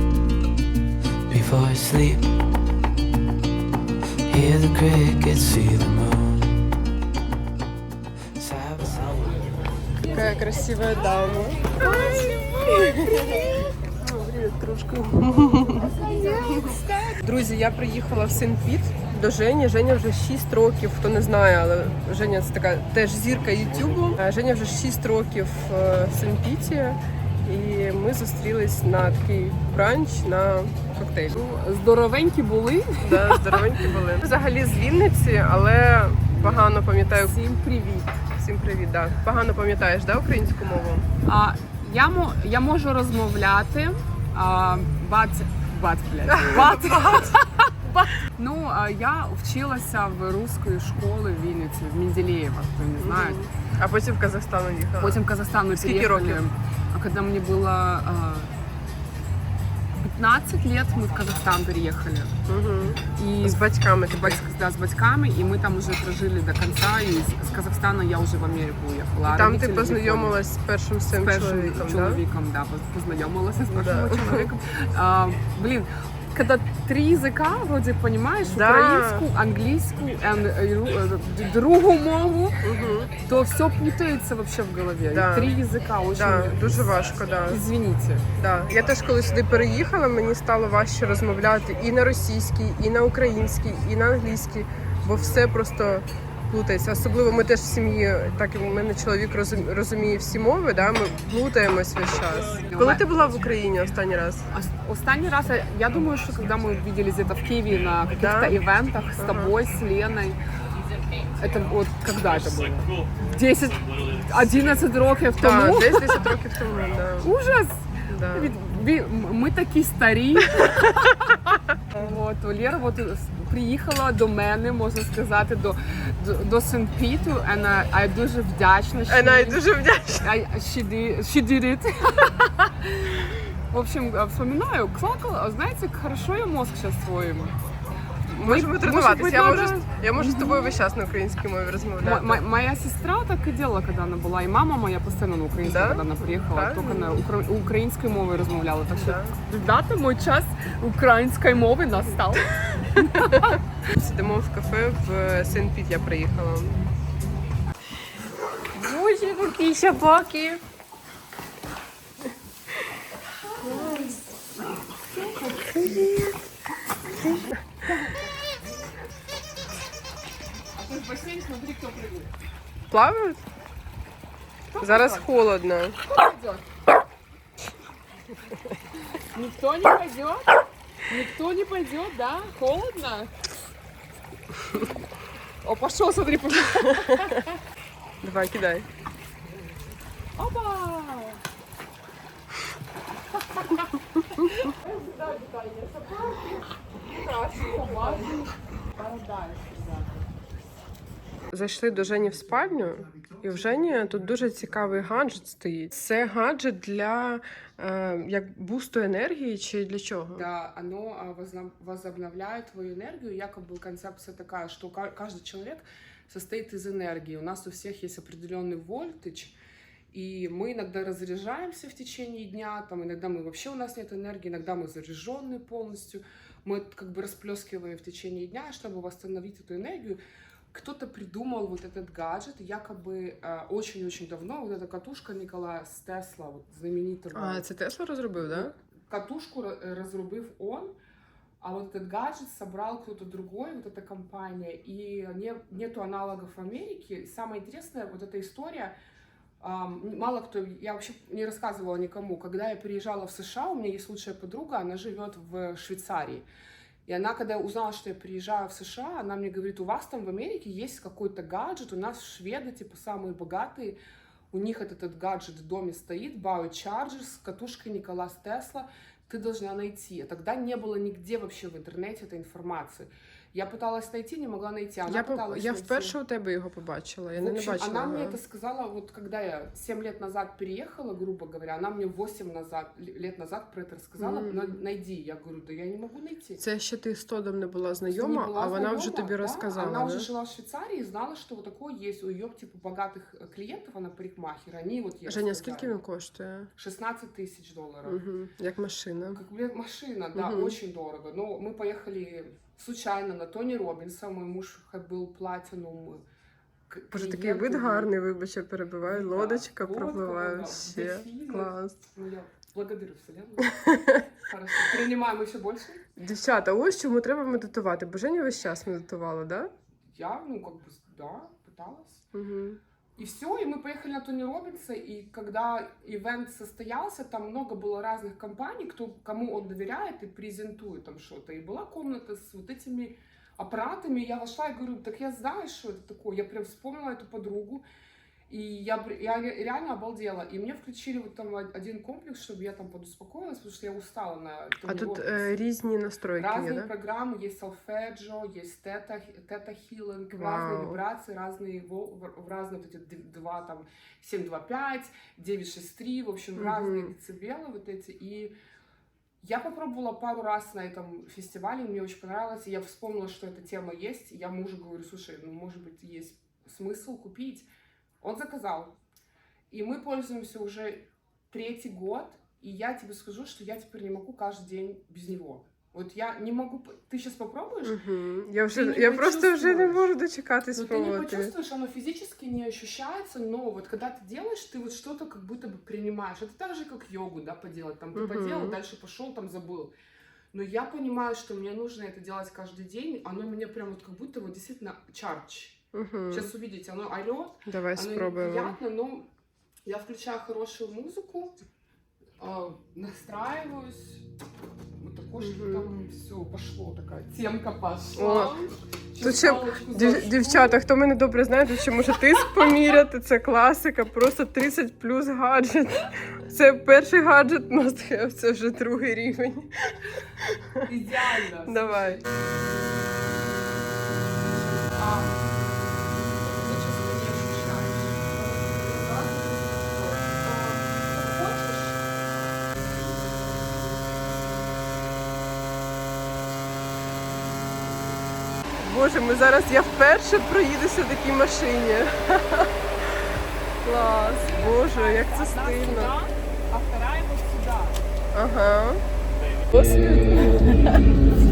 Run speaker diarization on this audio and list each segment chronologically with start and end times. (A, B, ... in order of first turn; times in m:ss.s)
0:01.3-0:02.3 A
0:04.3-0:06.7 A
0:08.3-0:09.4 A
0:10.0-0:10.4 B
0:10.1-0:31.4 C
0:11.6-0:13.7 B
0:15.7-0:17.2 B
0:31.3-0:33.8 B
0:33.0-0:37.4 C
0:36.3-0:38.2 B
0:38.4-0:41.1 C
0:41.2-0:53.4 B
0:46.2-0:47.4 C
0:53.0-0:55.2 C
0:55.0-0:58.5 B
0:55.7-0:56.4 C
1:00.0-1:02.4 B
1:02.4-1:04.4 C
1:03.2-1:03.6 B
1:04.1-1:10.4 B
1:09.2-1:12.2 C
1:11.1-1:22.6 B
1:13.7-1:14.5 C
1:18.4-1:19.3 C
1:22.6-1:23.1 C
1:23.2-1:28.3 B
1:25.1-1:25.6 C
1:26.1-1:27.6 C
1:28.4-1:44.5 C
1:42.6-1:43.1 B
1:44.5-1:50.4 B
1:48.1-1:48.6 C
1:49.2-1:49.6 C
1:51.2-1:56.3 B
1:55.4-1:57.3 C
1:57.2-2:09.6 B
1:58.1-1:58.5 C
2:00.6-2:01.1 C
2:01.9-2:02.2 C
2:09.0-2:10.3 C
2:10.2-2:17.5 B
2:18.3-2:22.4 C
2:18.4-2:20.8 B
2:22.0-2:33.6 B
2:25.6-2:27.2 C
2:28.9-2:29.4 C
2:33.0-2:36.8 C
2:38.7-2:40.6 C
2:43.6-2:44.1 B
2:43.6-2:44.2 C
2:45.2-2:45.6 B
2:45.4-2:46.4 C
2:47.2-2:47.6 C
2:47.8-2:48.3 B
2:50.7-2:52.3 B
2:52.9-2:53.4 C
2:54.7-2:55.3 B
2:54.8-2:56.0 C
2:56.0-2:56.6 B
2:59.3-3:03.3 B
3:05.6-3:07.6 B
3:06.9-3:07.4 C
3:08.2-3:08.9 C
3:10.4-3:11.4 B
3:13.3-3:20.3 B
3:17.1-3:18.4 C
3:21.5-3:30.5 C
3:30.3-3:39.6 B
3:40.1-3:50.2 B
3:50.7-3:57.7 B
3:57.3-3:58.7 C
3:58.4-4:00.9 B
4:01.6-4:09.0 B
4:09.6-4:16.5 B
4:17.1-4:24.0 B
4:24.5-4:36.2 B
4:35.1-4:38.4 C
4:37.3-4:46.6 B
4:44.2-4:44.8 C
4:46.6-4:50.3 C
4:48.1-4:56.0 B
4:55.2-4:56.7 C
4:56.8-4:58.2 B
4:58.0-4:59.4 C
4:59.3-5:06.2 B
5:00.3-5:00.8 C
5:06.9-5:08.2 B
5:07.1-5:12.0 C
5:09.0-5:16.0 B
5:13.7-5:14.3 C
5:16.2-5:19.7 C
5:20.1-5:22.2 B
5:22.3-5:22.8 C
5:23.2-5:37.8 B
5:38.5-5:45.6 B
5:44.8-5:46.9 C
5:46.4-5:58.5 B
5:50.3-5:51.0 C
5:56.6-5:57.1 C
5:59.4-6:07.7 B
6:08.2-6:09.0 B
6:09.7-6:18.0 B
6:17.8-6:21.5 C
6:18.7-6:20.1 B
6:20.7-6:29.9 B
6:28.1-6:28.8 C
6:30.5-6:39.3 B
6:35.9-6:36.5 C
6:37.6-6:38.8 C
6:39.8-6:41.6 B
6:42.4-6:44.2 B
6:45.0-6:50.8 B
6:45.4-6:45.9 C
6:48.1-6:48.6 C
6:49.2-6:59.7 C
7:00.4-7:00.9 C
7:00.8-7:02.3 B
7:01.6-7:02.2 C
7:04.9-7:05.4 B
7:06.4-7:12.0 B
7:18.8-7:26.1 C
7:24.5-7:28.0 B
7:28.3-7:29.0 C
7:29.7-7:31.1 C